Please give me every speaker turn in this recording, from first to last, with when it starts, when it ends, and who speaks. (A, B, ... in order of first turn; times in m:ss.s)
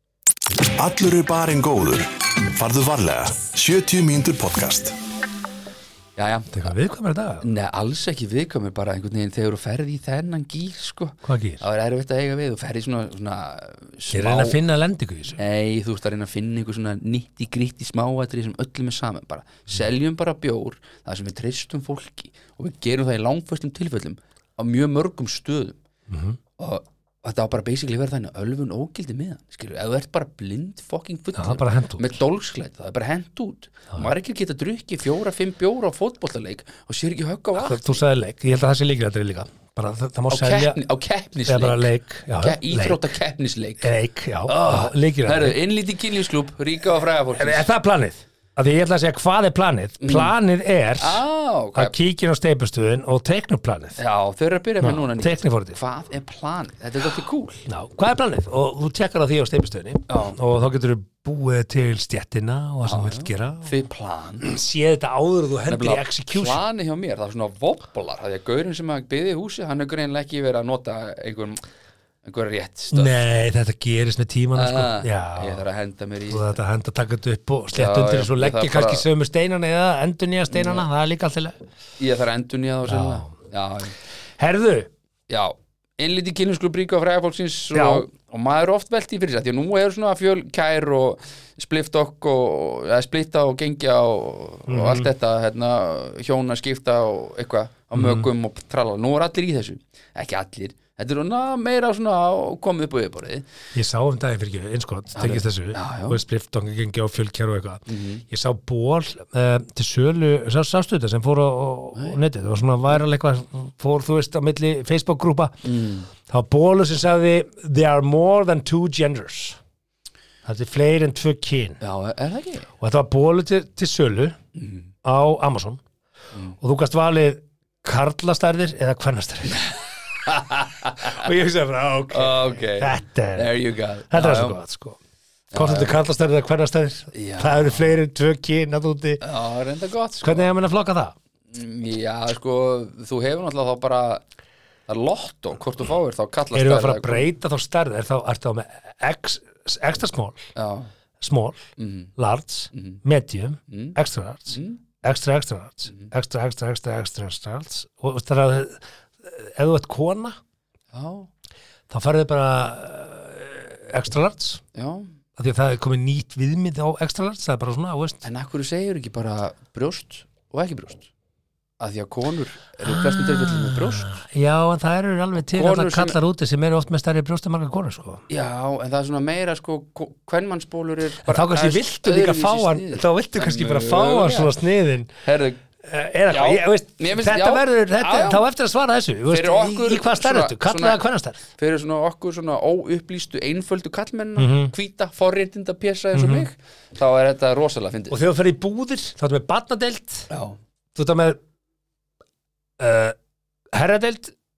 0:00.8-0:04.9 A
0:06.2-0:06.7 B
0:06.5-0:07.4 C
0:07.4-0:14.6 B
0:11.2-0:11.6 C
0:14.1-0:15.4 C
0:15.4-0:25.8 B
0:26.1-0:26.4 C
0:26.6-0:38.0 B
0:31.3-0:32.2 C
0:37.6-0:40.8 C
0:40.3-0:43.9 B
0:41.5-0:43.0 C
0:43.8-0:45.6 C
0:44.4-0:47.7 B
0:47.4-0:51.2 C
0:50.0-0:50.3 B
0:51.0-0:52.0 B
0:51.7-0:54.0 C
0:54.0-0:57.6 B
0:54.8-0:55.8 C
0:57.6-1:03.7 C
1:00.1-1:00.4 B
1:02.8-1:04.4 B
1:04.4-1:06.6 C
1:05.7-1:11.6 B
1:12.2-1:13.1 B
1:12.9-1:15.6 C
1:14.6-1:16.6 B
1:16.3-1:21.6 C
1:17.7-1:19.0 B
1:20.5-1:20.8 B
1:22.0-1:23.9 B
1:22.9-1:23.3 C
1:24.4-1:24.9 C
1:25.3-1:43.5 B
1:27.7-1:28.0 C
1:34.7-1:35.1 C
1:38.0-1:38.2 C
1:43.7-1:55.6 C
1:45.2-1:46.2 B
1:47.9-1:48.2 B
1:55.6-1:56.1 B
1:56.2-1:59.6 C
2:00.4-2:01.8 C
2:01.8-2:02.7 B
2:02.8-2:04.4 C
2:04.5-2:04.9 B
2:05.0-2:05.8 C
2:06.6-2:09.7 C
2:10.2-2:11.2 B
2:11.0-2:13.5 C
2:12.1-2:14.6 B
2:14.1-2:15.0 C
2:15.5-2:15.9 B
2:15.5-2:19.2 C
2:17.1-2:18.0 B
2:19.2-2:20.5 B
2:20.2-2:21.1 C
2:21.5-2:24.2 B
2:24.9-2:27.3 B
2:26.5-2:30.5 C
2:30.6-2:30.9 B
2:31.2-2:40.4 C
2:31.8-2:32.1 B
2:32.7-2:33.0 B
2:33.7-2:34.0 B
2:34.5-2:34.8 B
2:40.9-2:41.3 B
2:41.9-2:44.6 C
2:44.7-2:45.1 B
2:45.4-2:48.2 C
2:48.2-2:51.1 B
2:51.8-2:54.2 B
2:52.8-2:58.2 C
2:55.5-2:56.2 B
2:58.3-3:04.5 B
3:01.2-3:05.1 C
3:05.2-3:05.6 B
3:05.8-3:11.4 C
3:06.3-3:08.4 B
3:09.3-3:18.2 B
3:14.4-3:14.7 C
3:16.1-3:16.4 C
3:18.1-3:20.3 C
3:20.3-3:20.6 B
3:20.9-3:21.4 C
3:22.8-3:23.2 C
3:23.7-3:24.3 C